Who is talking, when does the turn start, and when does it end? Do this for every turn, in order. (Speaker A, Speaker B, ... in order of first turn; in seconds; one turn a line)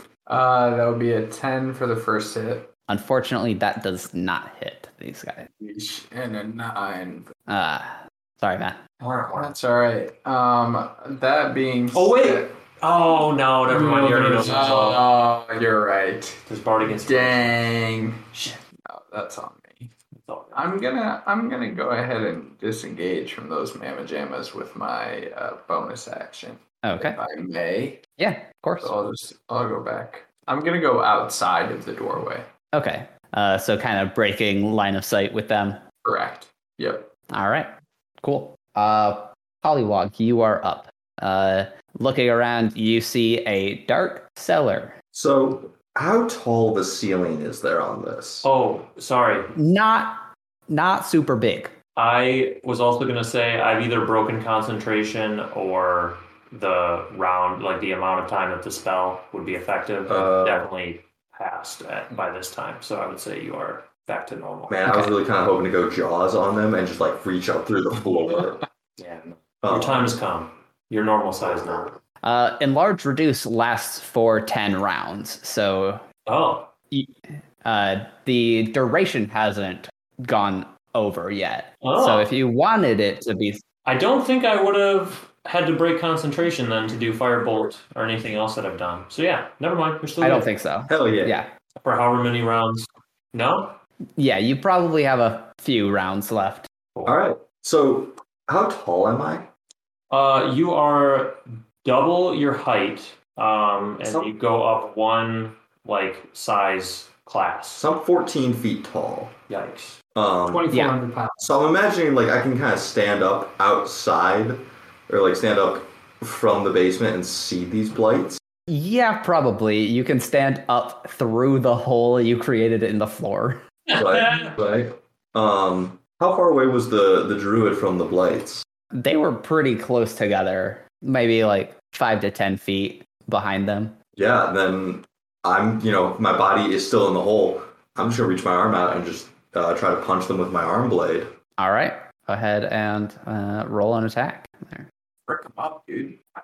Speaker A: 0.3-2.7
Speaker B: 2.9-5.5
Speaker A: 5.6-7.3
Speaker B: 7.5-8.8
Speaker C: 9.0-9.5
Speaker A: 9.3-12.5
Speaker C: 11.9-15.1
Speaker D: 13.7-15.0
Speaker A: 14.4-18.2
Speaker C: 16.5-17.7
Speaker C: 18.3-18.6
Speaker A: 18.8-19.9
Speaker C: 20.1-20.6
Speaker A: 20.5-28.0
Speaker B: 26.8-27.2
Speaker B: 28.2-28.9
Speaker A: 28.8-32.4
Speaker B: 32.7-35.8
Speaker A: 36.0-37.1
Speaker B: 37.3-37.7
Speaker B: 38.2-44.9
Speaker E: 45.1-48.5
Speaker C: 48.4-49.5
Speaker B: 49.5-51.7
Speaker C: 51.9-64.8
Speaker E: 60.1-60.7
Speaker E: 64.7-68.6
Speaker B: 64.9-65.1
Speaker C: 69.0-71.9
Speaker E: 69.6-70.2
Speaker B: 72.2-76.0
Speaker C: 76.2-76.7
Speaker B: 76.9-83.6
Speaker C: 81.8-82.3
Speaker C: 83.8-90.5
Speaker B: 90.2-91.5
Speaker E: 90.9-91.3
Speaker C: 91.8-93.8
Speaker B: 94.2-96.7
Speaker C: 96.9-97.2
Speaker E: 97.0-99.5
Speaker C: 100.1-107.8
Speaker E: 104.0-104.3
Speaker E: 107.8-109.3
Speaker C: 109.5-110.0
Speaker E: 110.1-110.7
Speaker D: 110.5-111.5
Speaker E: 111.4-118.4
Speaker B: 118.7-123.6
Speaker C: 123.9-124.6
Speaker E: 124.0-128.6
Speaker B: 128.9-134.0
Speaker E: 134.2-141.3
Speaker B: 141.6-144.8
Speaker A: 145.3-146.2